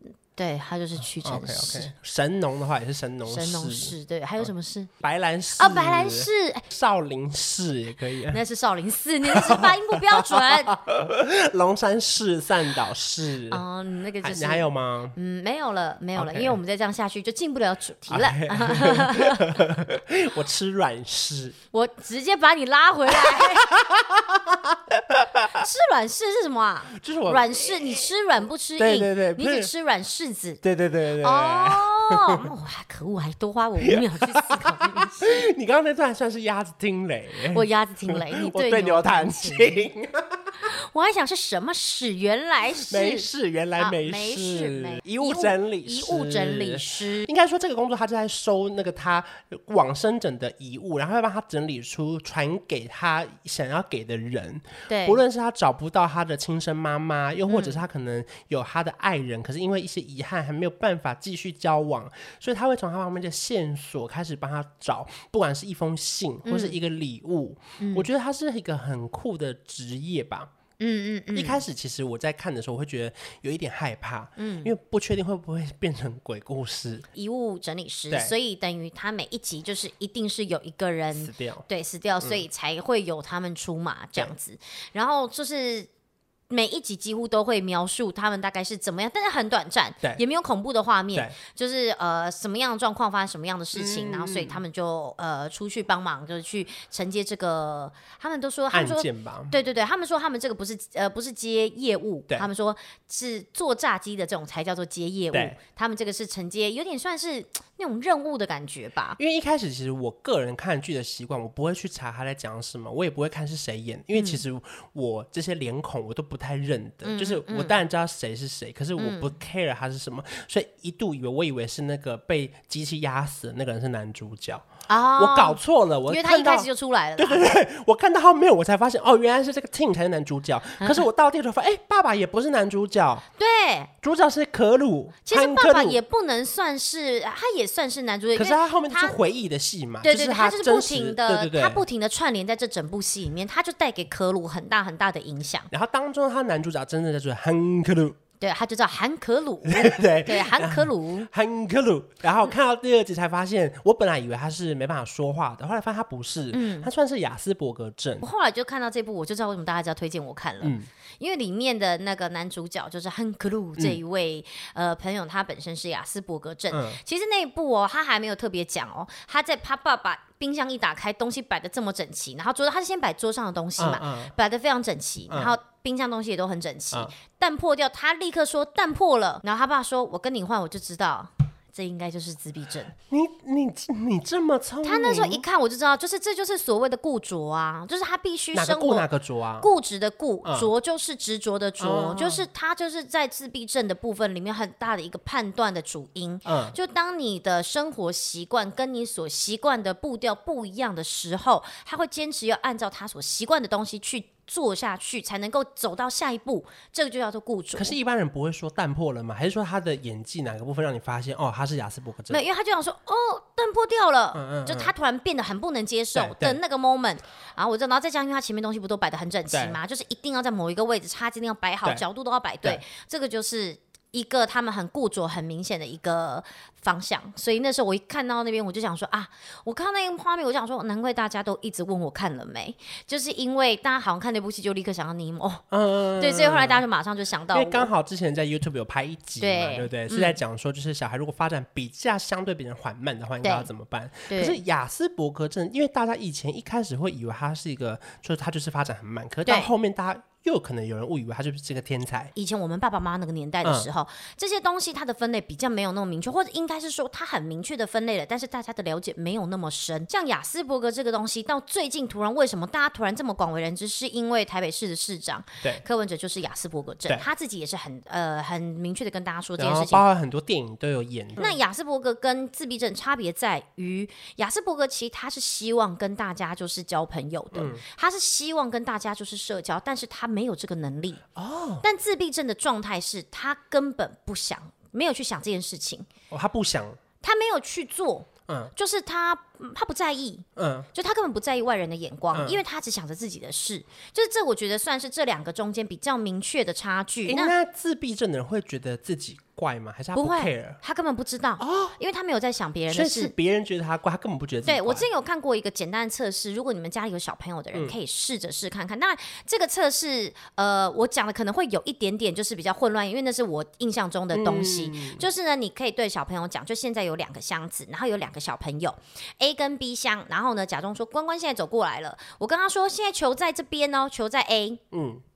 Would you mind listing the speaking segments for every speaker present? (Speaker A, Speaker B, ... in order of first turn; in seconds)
Speaker A: 0.3-1.9, 3.2-4.9, 5.6-6.7, 8.3-10.7, 13.5-19.5, 21.7-23.7, 25.5-30.6, 31.2-35.4, 37.5-39.9, 40.6-47.3, 54.9-55.2, 57.5-57.8, 66.4-66.8, 67.8-68.1, 70.8-71.6, 74.4-74.7, 77.1-85.9, 86.5-109.2, 114.1-114.4, 117.0-117.8, 119.0-119.3, 124.9-127.4, 130.8-131.1, 133.4-133.9, 135.2-139.2, 140.0-145.7, 148.4-151.3, 156.5-156.9, 158.2-182.9, 184.8-189.1, 189.6-208.0, 212.3-237.9, 239.4-240.4, 243.4-243.7, 244.3-244.6, 252.3-270.1, 271.4-281.2, 281.8-286.1, 287.2-297.6, 300.1-303.3, 304.6-324.8
Speaker B: 1.2-3.9, 5.0-8.4, 9.3-13.6, 14.2-15.2, 16.2-16.6, 18.1-21.6, 23.2-25.6, 26.9-27.5, 28.8-29.7, 30.6-32.4, 33.8-40.4, 42.9-70.5, 71.3-77.1, 78.1-78.3, 81.1-81.7, 93.7-94.6, 98.7-99.6, 105.3-105.6, 109.2-133.2, 134.0-136.0, 138.3-141.8, 145.7-148.2, 149.7-158.3, 160.6-160.9, 166.7-167.0, 173.8-174.3, 175.3-175.6, 183.1-185.4, 188.5-189.7, 190.4-190.7, 191.8-192.4, 196.4-196.8, 207.8-212.4, 214.3-214.9, 216.2-216.6, 219.5-219.8, 235.7-236.8, 237.5-252.3, 253.6-253.9, 269.6-271.6, 277.5-277.9, 281.4-281.9, 286.3-287.0, 290.6-290.9, 292.3-292.6, 297.2-300.8, 301.6-302.0, 302.9-305.1, 314.3-315.2, 324.9-325.2